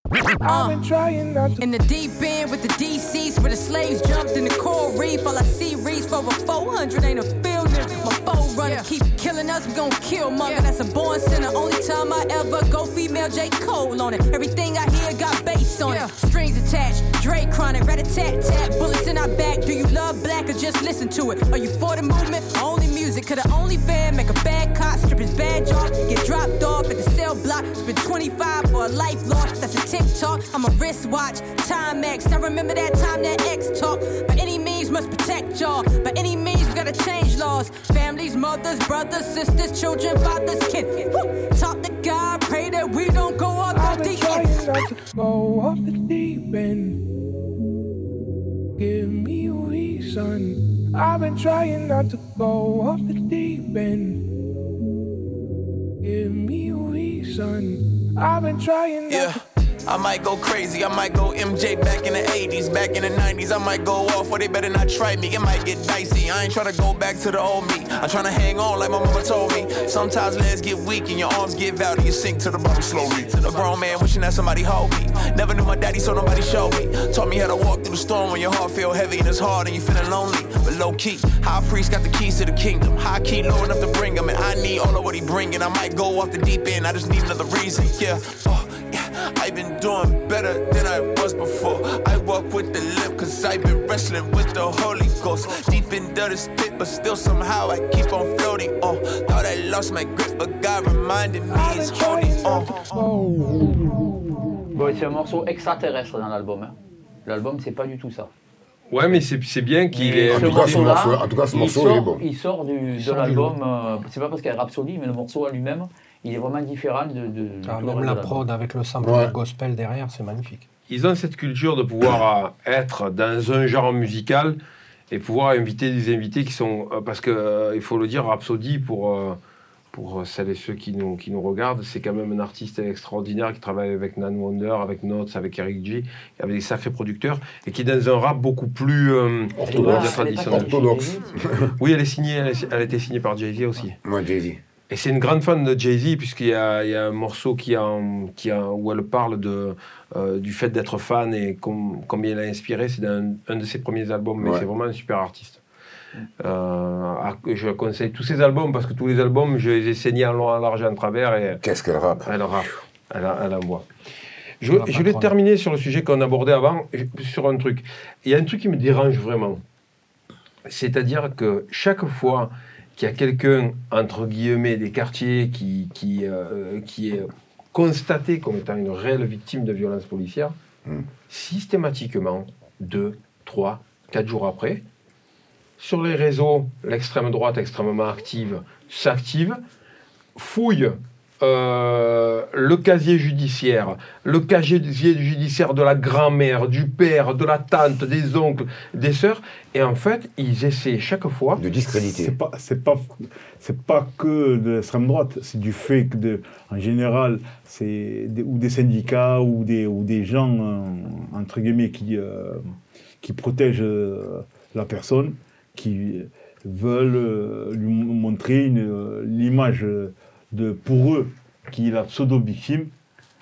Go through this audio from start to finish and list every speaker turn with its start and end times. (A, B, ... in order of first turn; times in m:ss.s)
0:00.4-0:01.7 A
0:00.5-0:00.8 B
0:01.6-0:44.8 B
0:43.7-0:47.0 A
0:48.8-0:54.2 A
0:56.0-0:59.4 A
0:59.1-1:43.1 C
1:41.5-1:44.5 A
1:44.7-1:48.3 D
1:48.9-1:50.9 E
1:49.9-1:58.4 D
1:50.3-1:52.2 F
1:53.0-1:53.6 G
1:57.6-2:00.6 G
1:59.0-1:59.3 F
2:00.9-2:04.6 E
2:05.1-2:09.4 E
2:09.9-2:20.7 E
2:19.6-2:21.7 F
2:19.6-2:21.3 D
2:21.8-2:24.0 E
2:24.0-2:24.6 F
2:24.9-2:35.6 E
2:34.4-2:34.6 F
2:36.4-2:41.6 E
2:41.6-2:42.3 F
2:42.2-2:43.8 E
2:44.6-2:49.6 E
2:44.7-2:45.3 G
2:50.7-3:00.5 E
3:01.3-3:04.8 E
3:05.8-3:09.6 E
3:10.4-3:21.6 E
3:21.6-3:22.3 F
3:22.0-3:32.6 H
3:33.2-3:42.9 H